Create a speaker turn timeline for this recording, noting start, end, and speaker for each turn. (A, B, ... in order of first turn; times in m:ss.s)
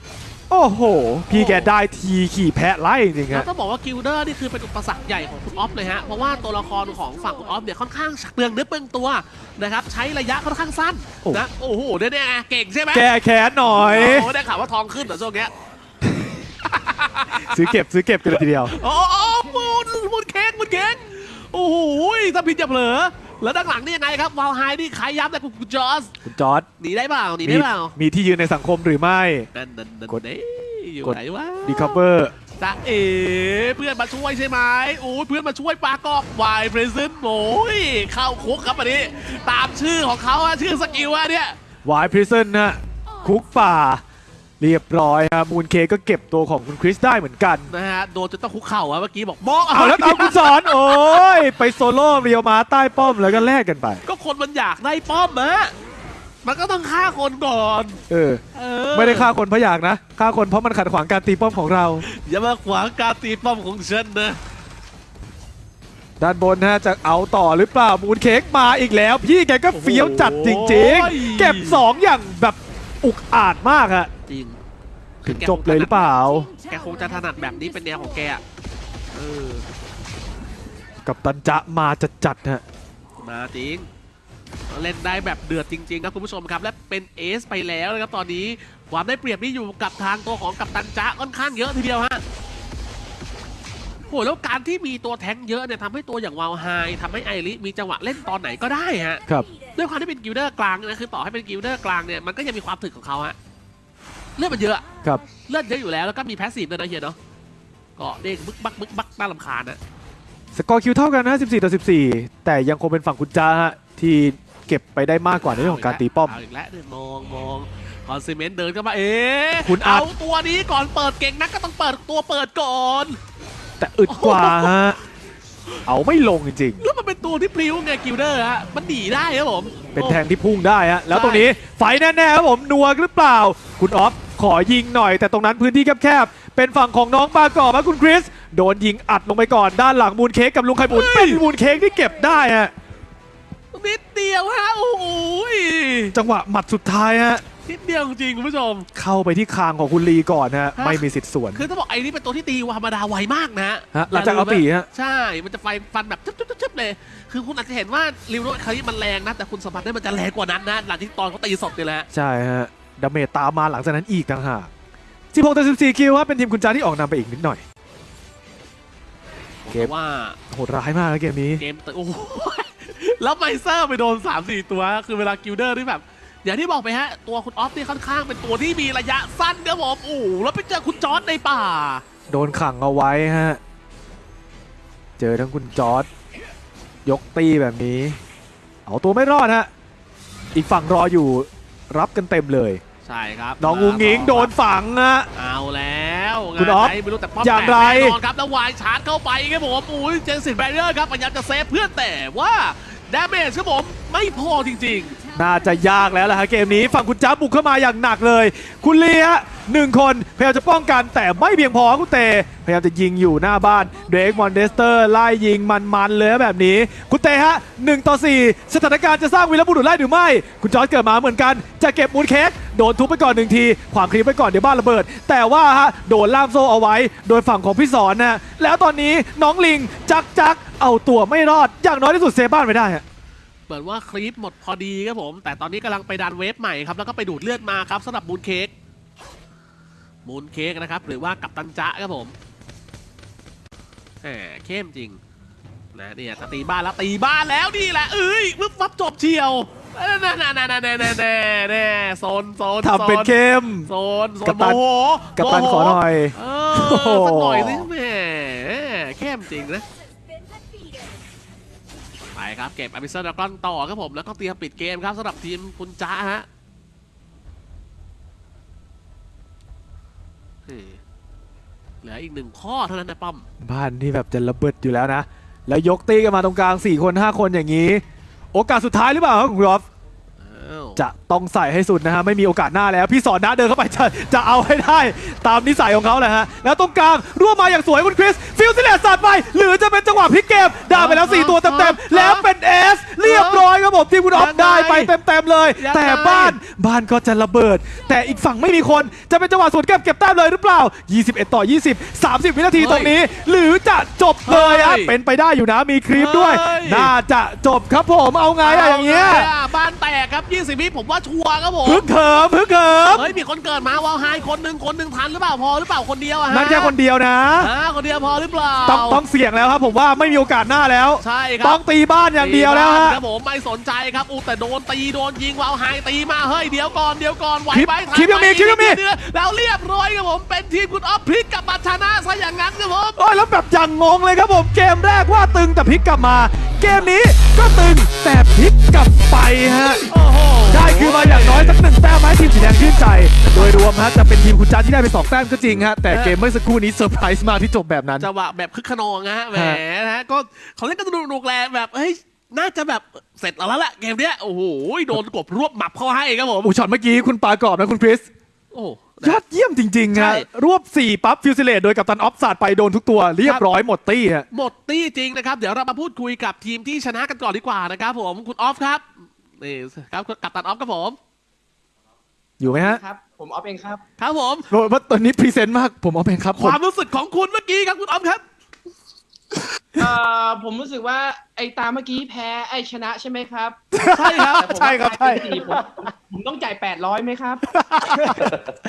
0:00.5-0:03.5 A
0:01.3-0:01.7 B
0:03.3-0:13.1 B
0:12.9-0:14.3 A
0:13.7-0:15.5 B
0:16.6-0:17.7 B
0:17.4-0:18.7 A
0:18.6-0:26.1 B
0:26.2-0:26.7 A
0:26.8-0:28.0 B
0:27.4-0:29.5 A
0:29.5-0:32.0 B
0:31.0-0:32.3 A
0:32.6-0:41.6 B
0:41.8-0:44.0 A
0:44.6-0:47.7 A
0:47.7-0:51.4 B
0:49.7-0:54.0 A
0:54.0-0:55.7 B
0:56.4-0:58.0 B
0:58.1-0:58.4 A
0:58.5-0:59.3 B
0:58.9-1:02.0 A
1:02.0-1:04.4 B
1:06.2-1:14.1 A
1:09.7-1:11.8 B
1:14.3-1:14.6 B
1:15.2-1:16.5 A
1:15.2-1:18.4 B
1:19.1-1:19.6 B
1:21.0-1:22.6 A
1:23.2-1:23.9 B
1:24.7-1:32.2 B
1:34.1-1:39.2 B
1:39.7-1:43.4 B
1:44.4-1:44.8 B
1:45.4-1:47.2 B
1:48.0-1:49.8 B
1:50.5-1:56.3 A
1:55.4-2:03.2 B
1:59.6-2:00.1 A
2:03.8-2:05.0 A
2:04.1-2:04.7 B
2:05.8-2:06.8 A
2:06.8-2:10.2 B
2:09.9-2:22.7 A
2:11.1-2:11.6 B
2:20.9-2:21.4 B
2:23.7-2:26.1 B
2:26.1-2:27.4 A
2:27.6-2:28.9 B
2:28.9-2:31.7 A
2:30.8-2:31.0 B
2:31.5-2:42.1 B
2:33.9-2:34.9 A
2:42.1-2:44.7 A
2:45.3-2:47.6 A
2:49.6-2:50.4 B
2:50.5-2:51.6 A
2:51.6-3:02.0 B
3:02.3-3:03.6 A
3:05.2-3:06.1 A
3:07.0-3:08.2 A
3:08.8-3:09.7 A
3:10.5-3:12.8 A
3:13.0-3:14.5 B
3:13.6-3:15.3 A
3:15.3-3:25.2 B
3:16.6-3:18.2 A
3:25.3-3:53.0 A
3:53.7-3:58.7 B
4:00.2-4:02.3 B
4:04.2-4:05.2 B
4:05.9-4:19.8 B
4:12.8-4:13.9 A
4:14.4-4:14.8 A
4:15.3-4:17.9 A
4:22.3-4:26.4 B
4:30.7-4:31.0 B
4:32.0-4:33.5 B
4:33.6-4:39.8 A
4:40.4-4:41.0 B
4:41.0-5:09.5 A
4:50.9-4:52.5 B
4:53.2-4:53.7 B
4:54.3-4:55.1 B
4:55.8-4:56.6 B
5:02.8-5:03.1 B
5:04.4-5:05.1 B
5:06.1-5:07.1 B
5:08.6-5:12.0 B
5:11.8-5:13.3 A
5:13.1-5:16.9 B
5:16.5-5:17.7 A
5:17.6-5:19.2 B
5:18.8-5:23.2 A
5:21.2-5:21.8 B
5:22.4-5:33.2 B
5:27.7-5:29.0 A
5:33.2-5:40.0 A
5:40.1-5:41.8 B
5:40.7-5:48.3 A
5:43.4-5:43.8 B
5:45.9-5:46.4 B
5:48.2-5:56.7 B
5:49.5-5:49.8 A
5:56.6-5:58.3 A
5:58.7-5:59.4 B
5:59.2-6:04.5 A
6:00.1-6:00.5 B
6:03.4-6:03.6 B
6:04.5-6:11.2 B
6:12.6-6:13.0 A
6:12.6-6:14.0 C
6:14.2-6:14.7 B
6:14.7-6:16.8 A
6:16.5-6:18.4 B
6:20.0-6:27.6 C
6:23.9-6:25.4 A
6:27.9-6:28.5 A